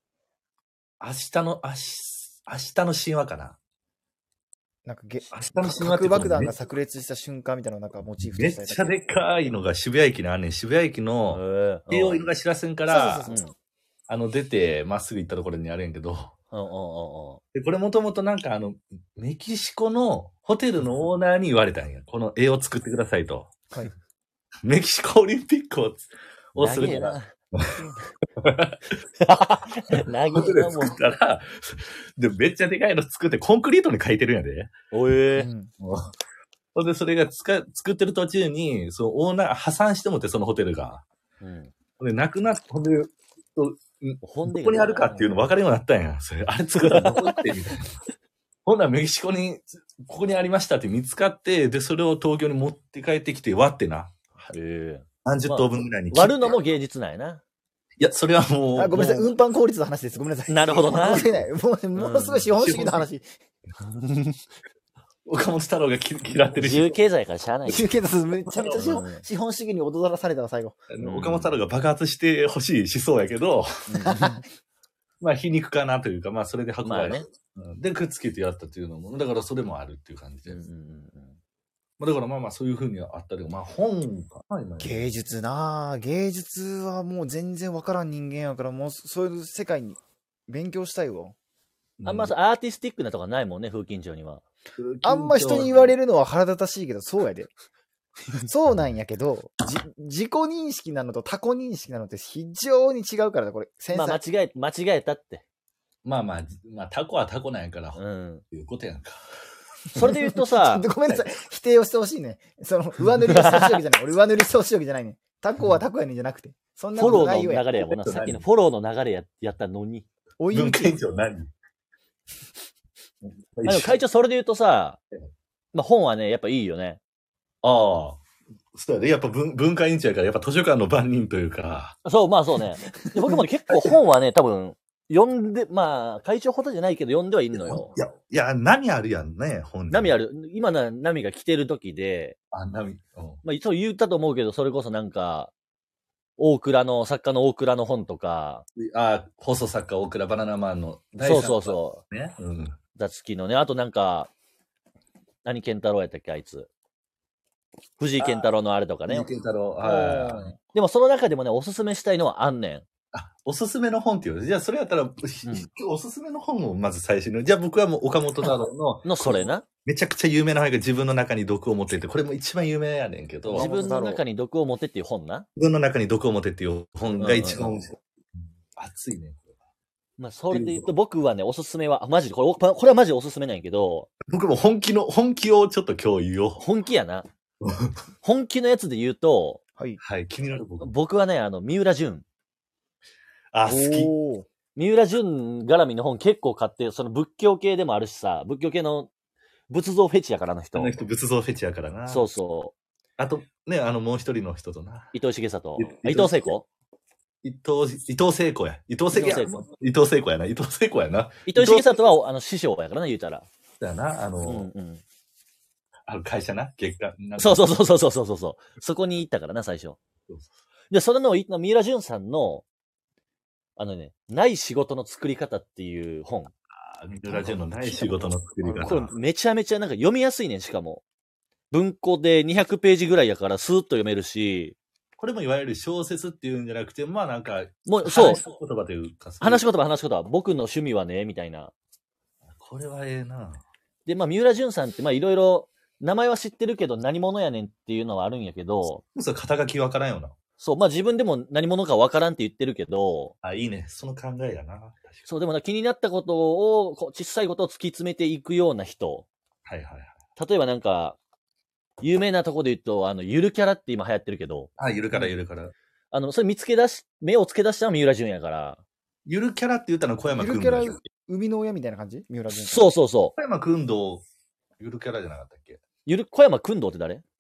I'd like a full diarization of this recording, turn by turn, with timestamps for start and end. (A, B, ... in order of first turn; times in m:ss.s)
0:01.0-0:03.6 A
0:04.9-0:08.9 B
0:05.3-0:06.5 A
0:08.2-0:13.3 A
0:11.3-0:12.2 C
0:12.9-0:13.4 B
0:13.3-0:13.5 C
0:14.1-0:16.3 A
0:16.5-0:17.4 C
0:17.5-0:23.5 A
0:24.6-0:27.8 A
0:26.6-0:27.3 C
0:28.4-0:29.0 A
0:29.2-0:31.0 C
0:29.9-0:34.7 A
0:34.9-0:35.5 C
0:35.4-0:35.7 B
0:35.8-0:36.1 A
0:36.8-0:41.0 A
0:41.4-0:41.7 C
0:42.0-0:47.9 A
0:44.2-0:45.4 C
0:46.8-0:47.5 C
0:48.6-0:54.5 A
0:54.5-0:57.4 C
0:55.2-0:56.6 A
0:58.0-0:59.3 A
0:58.8-1:03.3 B
1:00.5-1:01.3 C
1:00.9-1:01.5 A
1:02.0-1:02.4 C
1:02.5-1:03.1 A
1:03.8-1:04.4 C
1:05.2-1:07.0 A
1:06.6-1:07.9 C
1:07.7-1:10.8 B
1:08.5-1:08.9 A
1:08.8-1:09.2 C
1:10.9-1:13.7 A
1:11.0-1:11.6 C
1:13.9-1:14.4 C
1:14.0-1:14.4 B
1:15.2-1:20.6 A
1:16.8-1:17.3 C
1:20.5-1:21.4 C
1:22.0-1:25.0 A
1:24.8-1:31.4 B
1:32.0-1:32.3 A
1:32.0-1:34.4 C
1:34.8-1:35.9 A
1:35.0-1:37.5 B
1:38.4-1:44.2 B
1:43.9-1:45.4 C
1:46.0-1:48.0 A
1:48.0-1:48.4 C
1:48.5-1:49.2 A
1:49.9-1:50.9 C
1:50.0-1:57.7 B
1:53.3-1:53.8 C
1:57.0-2:00.1 C
1:57.8-1:58.4 A
2:00.4-2:01.0 B
2:00.5-2:01.5 A
2:03.5-2:04.0 A
2:03.7-2:05.0 C
2:05.7-2:07.0 C
2:07.6-2:08.2 A
2:08.7-2:12.0 A
2:12.0-2:17.9 C
2:17.6-2:20.2 A
2:19.9-2:22.4 C
2:22.5-2:23.4 A
2:23.4-2:25.5 C
2:26.4-2:28.6 C
2:28.8-2:32.8 A
2:31.2-2:32.0 C
2:33.0-2:34.3 C
2:35.4-2:36.7 C
2:38.0-2:39.3 C
2:38.2-2:38.5 A
2:39.1-2:40.6 A
2:39.8-2:42.9 C
2:43.1-2:53.7 A
2:49.0-2:49.7 C
2:53.5-2:54.2 B
2:53.5-2:55.5 C
2:55.6-2:59.5 A
2:57.2-2:57.7 C
3:00.2-3:04.1 C
3:00.5-3:00.9 A
3:04.2-3:06.6 A
3:06.6-3:07.3 C
3:07.6-3:07.9 A
3:08.2-3:09.6 C
3:10.0-3:10.9 A
3:10.8-3:12.2 C
3:13.5-3:14.1 A
3:13.6-3:14.5 B
3:14.8-3:19.1 C
3:19.7-3:20.9 C
3:20.8-3:22.3 A
3:22.1-3:22.8 C
3:23.2-3:25.1 A
3:25.1-3:26.6 C
3:25.8-3:26.5 A
3:27.4-3:32.0 A
3:29.1-3:29.6 C
3:31.5-3:33.5 C
3:33.8-3:34.7 A
3:34.4-3:35.0 C
3:36.1-3:37.7 A
3:37.4-3:40.0 C
3:40.9-3:42.6 C
3:43.8-3:46.5 C
3:46.8-3:49.1 A
3:47.3-3:51.0 C
3:51.7-3:54.8 C
3:55.2-3:59.6 A
3:57.9-3:58.4 C
3:59.4-4:01.7 C
4:02.6-4:03.6 A
4:04.1-4:09.0 C
4:09.2-4:10.3 A
4:10.6-4:13.3 C
4:13.4-4:15.2 A
4:15.3-4:19.3 C
4:19.6-4:20.2 A
4:20.4-4:21.2 C
4:22.0-4:25.3 C
4:24.8-4:25.7 A
4:26.1-4:28.8 C
4:29.2-4:31.0 A
4:30.4-4:32.9 B
4:32.5-4:33.4 C
4:33.4-4:34.2 A
4:34.8-4:35.8 A
4:36.1-4:37.2 C